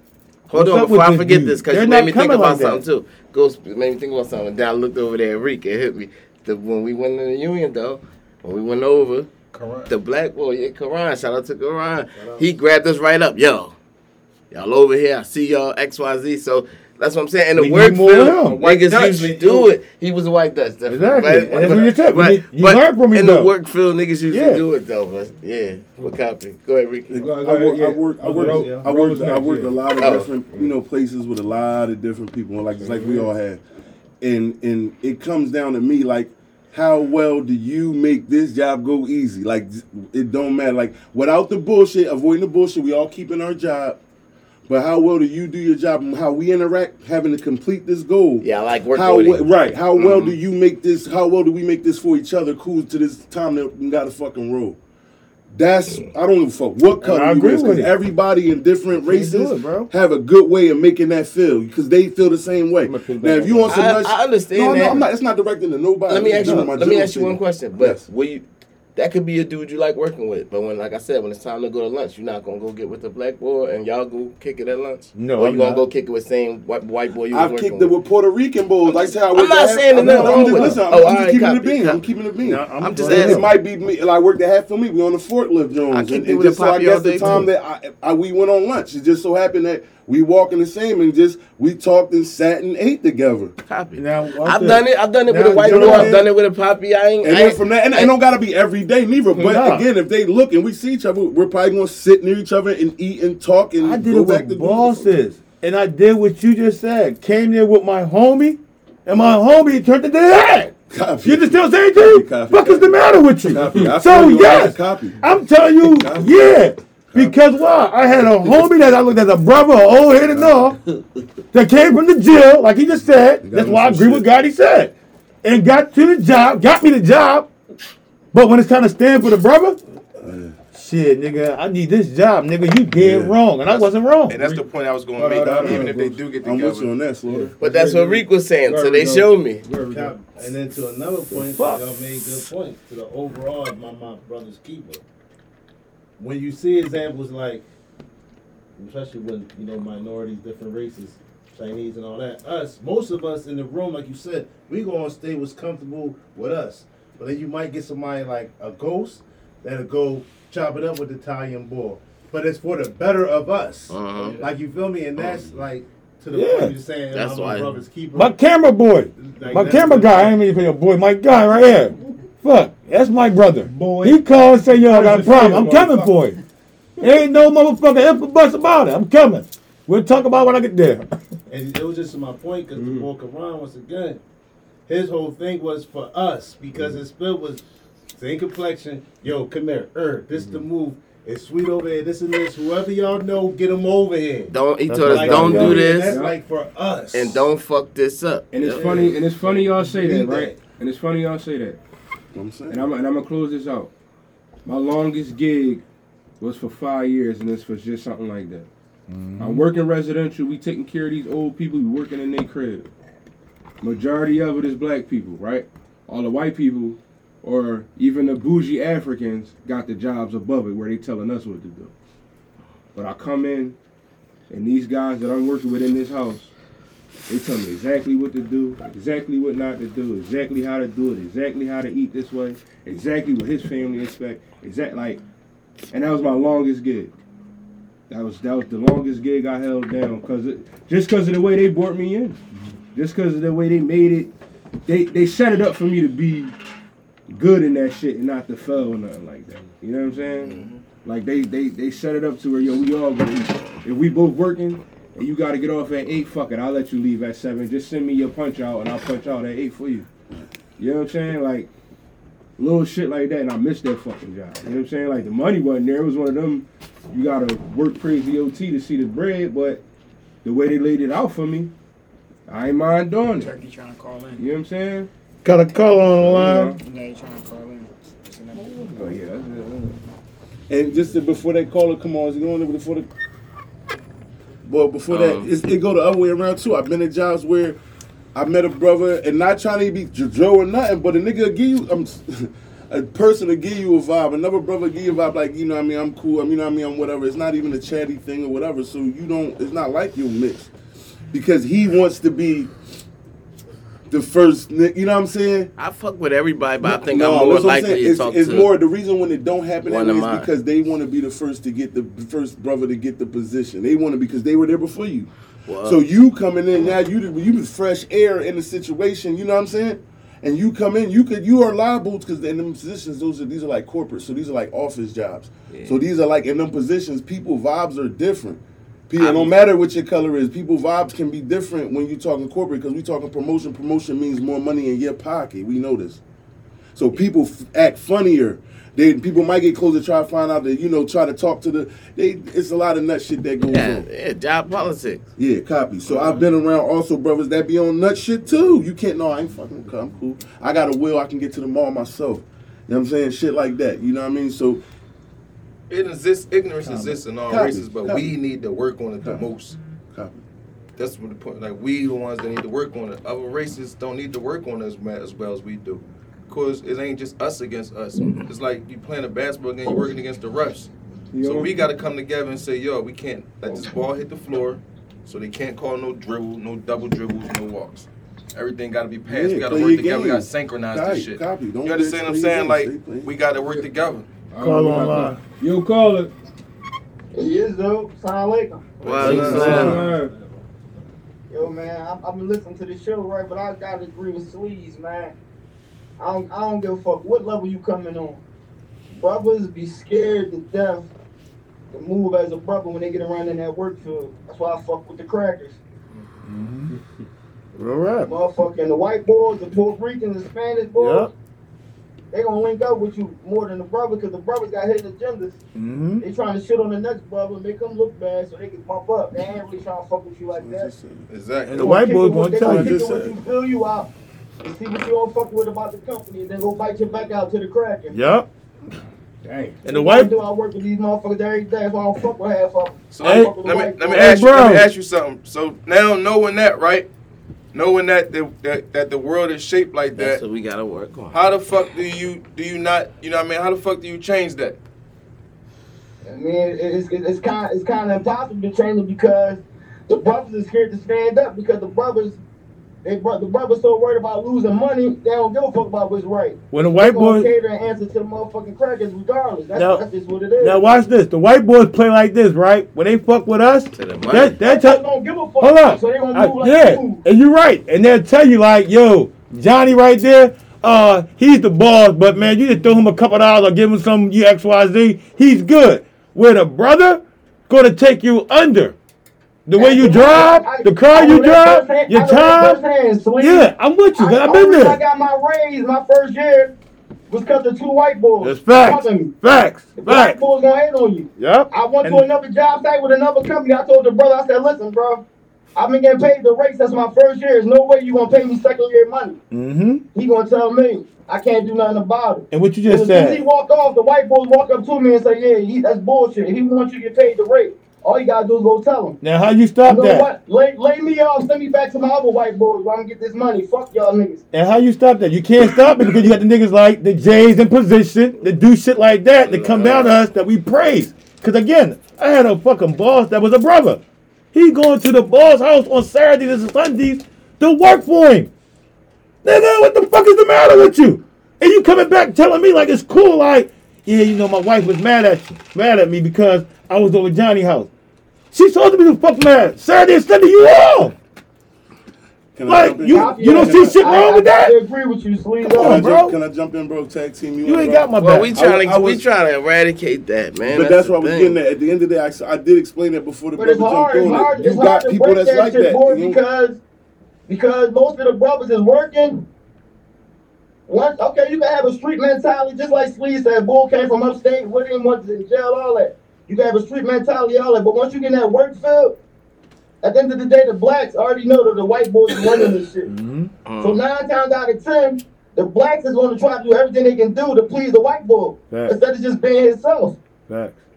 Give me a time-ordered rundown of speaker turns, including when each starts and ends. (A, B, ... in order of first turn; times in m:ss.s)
0:00.5-0:09.3 A
0:00.5-0:02.8 B
0:09.5-0:09.9 C
0:09.9-0:13.8 A
0:12.1-0:12.5 D
0:14.5-0:27.4 A
0:17.5-0:18.6 B
0:18.5-0:19.7 C
0:20.9-0:23.5 B
0:24.3-0:24.6 B
0:27.1-0:33.6 E
0:27.1-0:30.8 F
0:28.2-0:29.1 D
0:30.0-0:30.3 A
0:32.8-0:33.3 F
0:34.2-0:44.0 E
0:44.7-0:54.8 E
0:48.4-0:50.3 A
0:55.5-1:08.0 E
0:57.0-0:57.9 B
0:59.0-0:59.9 B
1:02.8-1:04.0 B
1:03.7-1:05.1 A
1:06.1-1:08.4 A
1:06.4-1:06.7 B
1:09.0-1:18.0 A
1:15.1-1:15.8 B
1:17.3-1:33.5 E
1:18.8-1:22.0 A
1:20.1-1:20.7 B
1:22.4-1:23.5 B
1:22.8-1:23.5 A
1:25.9-1:27.4 A
1:27.2-1:27.5 B
1:33.7-1:38.1 A
1:34.0-1:36.2 B
1:35.5-1:36.3 E
1:37.2-1:45.1 E
1:39.3-1:39.8 B
1:43.8-2:00.8 B
1:50.9-1:55.2 E
1:55.8-1:56.5 E
1:58.4-1:58.8 E
2:00.3-2:00.7 E
2:01.5-2:07.5 B
2:03.4-2:04.3 E
2:08.3-2:09.8 B
2:10.2-2:10.5 E
2:10.7-2:14.6 B
2:12.9-2:13.3 E
2:14.3-2:16.9 C
2:15.2-2:16.2 F
2:15.2-2:17.5 E
2:17.3-2:20.2 F
2:17.6-2:19.6 A
2:19.8-2:25.0 D
2:21.5-2:22.4 B
2:26.2-2:27.6 D
2:28.8-2:48.4 D
2:43.9-2:44.5 A
2:46.3-2:46.7 B
2:47.1-2:47.8 A
2:48.1-2:56.4 B
2:49.2-2:50.3 D
2:53.6-2:56.4 F
2:57.0-2:57.2 F
2:57.0-3:01.1 B
3:01.5-3:04.2 D
3:02.7-3:03.1 F
3:04.9-3:07.6 D
3:08.1-3:14.6 D
3:10.3-3:10.6 F
3:14.5-3:16.2 A
3:14.9-3:15.8 B
3:15.1-3:16.4 F
3:15.1-3:17.5 D
3:17.1-3:19.0 A
3:18.5-3:21.8 F
3:18.6-3:20.6 D
3:18.8-3:19.1 E
3:22.3-3:22.9 E
3:22.7-3:23.9 F
3:24.6-3:25.8 F
3:26.4-3:28.7 F
3:29.1-3:29.7 B
3:29.4-3:32.9 F
3:33.8-3:41.9 F
3:42.9-3:43.8 F
3:44.5-3:46.5 F
3:47.3-3:55.2 F
3:55.9-3:57.1 F
3:58.1-4:04.3 F
4:04.8-4:06.5 F
4:07.3-4:20.1 F
4:10.4-4:10.8 C
4:20.8-4:21.7 F
4:22.6-4:29.8 F
4:30.4-4:31.7 F
4:32.5-4:33.5 F
4:33.3-4:34.4 G
4:34.4-4:35.1 F
4:35.4-4:36.8 B
4:36.2-4:36.8 F
4:36.6-4:39.1 G
4:38.5-4:40.0 F
4:40.7-4:43.1 E
4:44.6-4:47.8 E
4:45.1-4:45.5 A
4:48.3-5:00.7 E
5:01.3-5:02.7 E
5:04.1-5:05.7 E
5:05.8-5:08.7 A
5:06.8-5:15.3 E
5:09.8-5:10.5 A
5:15.7-5:16.0 A
5:15.8-5:36.2 E
5:25.7-5:26.0 F
5:29.2-5:29.5 A
5:37.0-5:44.1 E
5:43.7-5:45.3 A
5:45.4-5:54.8 E
5:55.9-5:59.8 C
5:56.9-5:58.3 E
6:00.1-6:00.4 E
6:01.0-6:10.9 C
6:11.3-6:11.9 F
6:11.4-6:24.3 C
6:19.2-6:23.3 E
6:24.5-6:26.3 F
6:24.6-6:25.4 B
6:27.3-6:29.0 H
6:29.0-6:30.1 A
6:29.0-6:29.9 C
6:29.1-6:30.5 D
6:29.2-6:30.3 F
6:31.5-6:35.3 H
6:36.2-6:38.4 H
6:39.2-6:41.1 H
6:41.9-6:45.8 H
6:46.4-6:46.9 B
6:47.8-6:48.3 B
6:48.2-6:51.3 H
6:51.0-6:51.3 B
6:52.3-6:55.6 H
6:55.7-6:56.2 B
6:56.2-7:00.9 H
7:00.5-7:01.3 E
7:01.3-7:02.0 C
7:01.7-7:03.0 B
7:01.8-7:08.2 H
7:02.6-7:03.4 E
7:08.1-7:08.5 B
7:09.4-7:09.8 F
7:09.8-7:10.3 B
7:09.8-7:14.4 H
7:13.1-7:17.1 C
7:13.2-7:13.5 B
7:14.1-7:14.9 B
7:17.7-7:20.4 C
7:20.1-7:21.4 A
7:21.3-7:24.8 C
7:26.2-7:32.4 H
7:33.0-7:40.8 H
7:36.7-7:37.5 B
7:39.7-7:40.0 B
7:40.6-7:45.0 B
7:43.9-7:44.6 A
7:44.6-7:47.2 H
7:45.6-7:59.0 B
7:59.6-8:02.8 B
7:59.8-8:06.7 H
8:03.4-8:05.0 B
8:07.3-8:09.3 H
8:08.4-8:10.4 B
8:10.0-8:15.2 H
8:11.4-8:12.2 B
8:15.7-8:19.4 H
8:19.5-8:20.0 B
8:20.1-8:29.2 H
8:22.5-8:23.4 B
8:29.2-8:30.3 B
8:29.8-8:34.4 H
8:34.5-8:44.0 B
8:39.4-8:40.1 A
8:44.5-8:48.5 B
8:49.4-8:57.9 B
8:58.5-9:01.2 B
9:02.5-9:03.9 E
9:02.6-9:04.7 B
9:02.9-9:06.1 H
9:05.6-9:06.4 B
9:05.7-9:09.2 E
9:07.6-9:08.6 B
9:08.2-9:11.6 A
9:10.6-9:16.4 E
9:13.5-9:16.8 H
9:17.5-9:19.4 H
9:20.9-9:29.2 H
9:30.0-9:33.1 H
9:33.0-9:33.5 B
9:33.6-9:34.0 A
9:33.8-9:40.2 H
9:38.7-9:39.0 B
9:40.5-9:40.8 B